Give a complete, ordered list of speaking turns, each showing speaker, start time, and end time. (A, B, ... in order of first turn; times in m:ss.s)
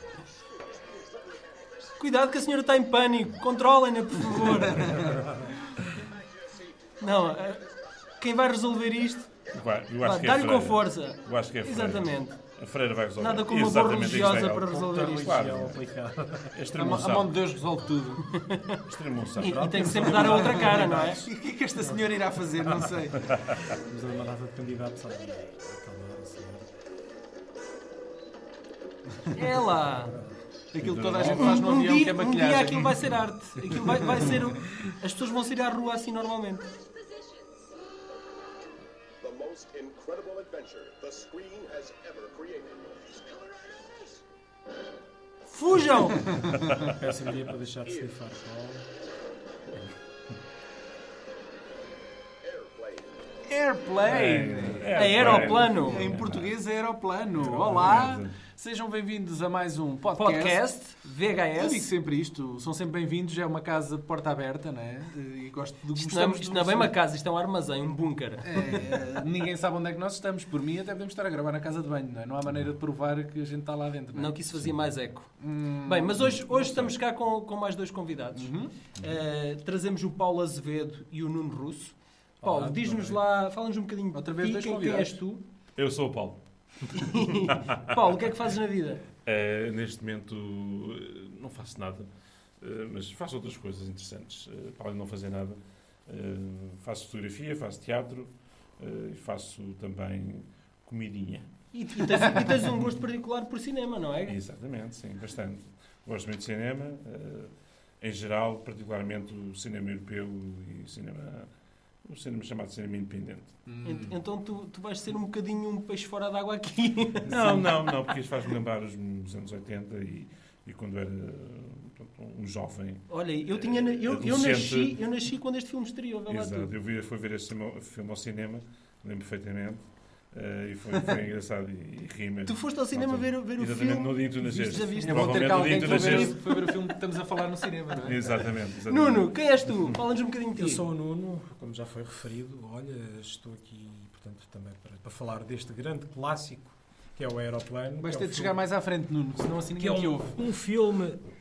0:00.8-0:01.6 A
0:02.0-0:05.3 B
0:06.5-0:06.9 A
0:07.0-0:07.7 B
0:08.2-0:09.3 B
0:09.5-0:15.8 C
0:10.0-0:12.4 B
0:13.2-0:15.4 B
0:14.5-0:16.5 D
0:16.6-0:17.4 C
0:16.8-0:18.4 E
0:18.3-0:18.8 B
0:18.8-0:20.2 C
0:19.4-0:21.2 D
0:19.4-0:21.2 B
0:19.6-0:23.2 E
0:21.8-0:22.9 D
0:23.3-0:23.6 C
0:23.7-0:26.7 D
0:29.3-0:30.2 B
0:30.7-0:33.1 E
0:30.8-0:31.6 C
0:31.2-0:36.7 B
0:33.9-0:34.4 E
0:39.2-0:44.2 A
0:45.5-0:46.3 B
0:46.3-0:46.5 E
0:46.6-0:46.9 C
0:46.8-0:48.9 D
0:52.4-0:53.2 A
0:53.5-1:00.6 E
0:54.0-0:56.6 C
0:54.9-0:56.1 B
0:57.4-0:58.0 D
0:57.5-0:58.4 C
1:00.2-1:01.9 B
1:01.6-1:06.9 E
1:06.0-1:09.0 B
1:08.4-1:14.4 E
1:14.1-1:25.4 B
1:15.4-1:16.8 E
1:18.3-1:18.7 E
1:22.4-1:23.2 D
1:24.1-1:25.2 E
1:25.8-1:26.4 C
1:26.9-1:29.0 B
1:27.4-1:28.0 C
1:29.3-1:32.1 C
1:32.6-1:41.5 C
1:41.7-1:44.4 B
1:42.1-1:42.5 E
1:44.3-1:51.5 C
1:52.0-1:53.6 C
1:53.7-1:54.1 E
1:53.8-1:57.7 B
1:57.2-2:05.0 C
2:03.1-2:06.7 B
2:06.3-2:16.4 C
2:12.4-2:16.8 B
2:14.9-2:18.5 E
2:18.0-2:19.3 C
2:18.9-2:20.8 B
2:20.5-2:28.6 D
2:28.0-2:30.4 E
2:29.8-2:31.2 D